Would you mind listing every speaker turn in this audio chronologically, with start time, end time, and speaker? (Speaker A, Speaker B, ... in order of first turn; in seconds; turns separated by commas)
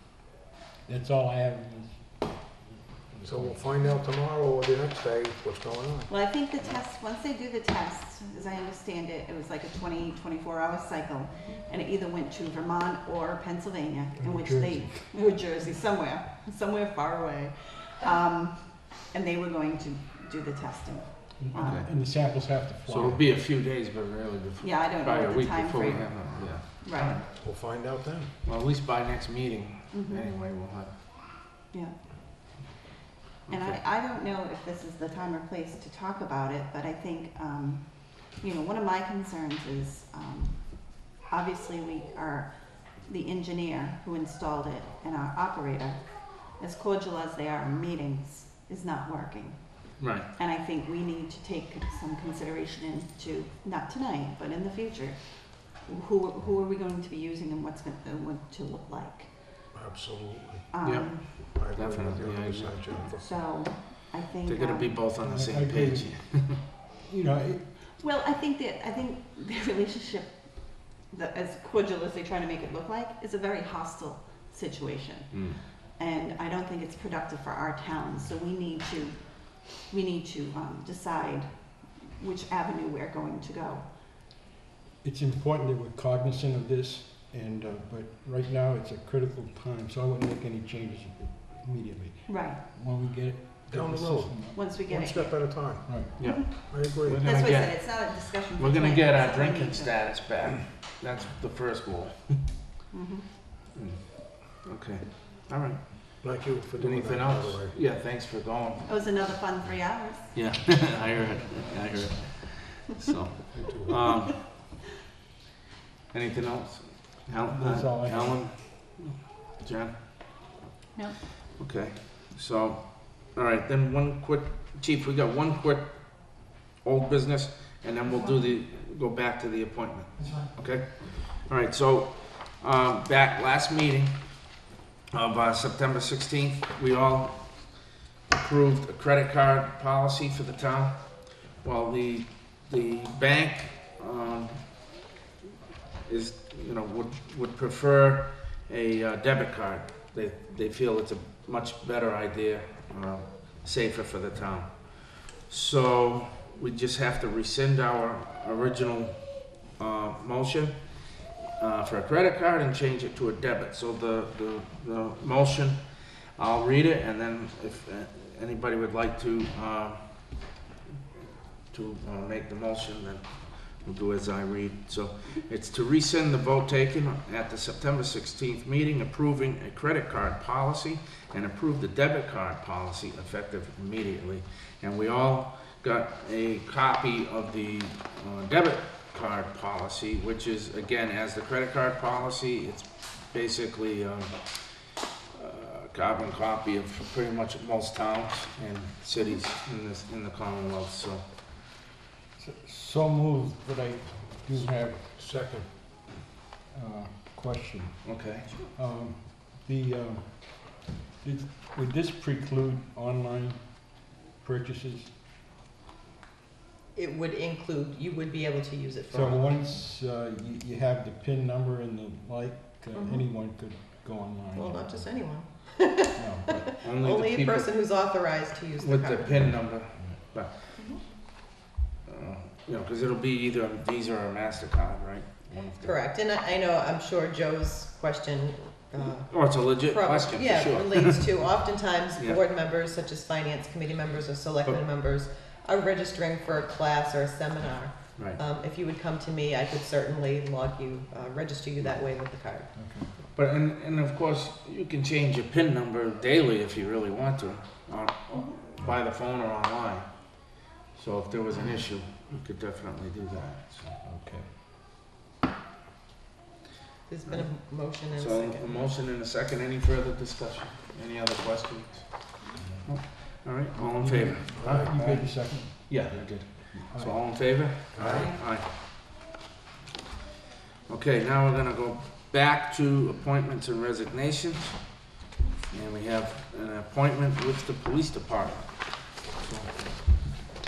Speaker A: 0.8-3.6, Speaker B: 3.2-6.1, Speaker C: 6.1-21.9, Speaker A: 14.2-15.0, Speaker A: 21.4-23.2, Speaker D: 21.5-21.9, Speaker D: 22.9-27.3, Speaker C: 24.6-27.2, Speaker B: 27.4-28.3, Speaker D: 28.4-30.9, Speaker C: 29.9-30.3, Speaker D: 33.5-33.8, Speaker C: 33.5-59.4, Speaker D: 50.0-50.3, Speaker B: 59.7-60.7, Speaker C: 60.7-61.5, Speaker D: 60.8-63.0, Speaker B: 61.3-63.4, Speaker C: 63.1-64.9, Speaker D: 64.5-66.6, Speaker A: 65.2-67.8, Speaker C: 68.0-83.8, Speaker D: 75.3-75.6, Speaker A: 85.0-94.7, Speaker C: 92.3-92.6, Speaker B: 93.7-97.2, Speaker C: 94.5-95.6, Speaker A: 95.8-96.3, Speaker D: 96.2-102.4, Speaker C: 96.3-96.7, Speaker C: 97.2-100.0, Speaker C: 102.9-103.2, Speaker D: 103.7-108.9, Speaker B: 106.2-107.8, Speaker C: 108.8-110.3, Speaker D: 110.3-114.5, Speaker B: 113.5-114.2, Speaker D: 116.1-119.9, Speaker A: 117.4-118.5, Speaker D: 121.6-134.1, Speaker D: 135.1-144.6, Speaker D: 146.0-160.9, Speaker D: 161.6-165.8, Speaker D: 166.3-170.4, Speaker D: 171.7-194.6, Speaker D: 195.3-201.2, Speaker A: 202.4-205.0, Speaker B: 204.5-205.7, Speaker A: 206.7-208.1, Speaker D: 208.0-208.5, Speaker A: 208.7-215.1, Speaker E: 216.9-219.4, Speaker A: 219.1-225.4, Speaker E: 222.9-223.2, Speaker E: 224.5-229.5, Speaker A: 226.1-226.7, Speaker D: 226.8-227.7, Speaker D: 228.8-230.5, Speaker D: 232.1-235.9, Speaker E: 235.8-252.7, Speaker D: 239.0-241.4, Speaker A: 252.7-253.1, Speaker D: 253.3-260.1, Speaker D: 260.9-263.9, Speaker A: 264.0-264.5, Speaker E: 267.1-268.9, Speaker D: 268.1-275.3, Speaker A: 272.6-272.9, Speaker A: 273.9-277.8, Speaker B: 274.5-274.9, Speaker D: 275.9-278.8, Speaker B: 277.9-278.3, Speaker D: 280.9-284.9, Speaker D: 285.7-288.8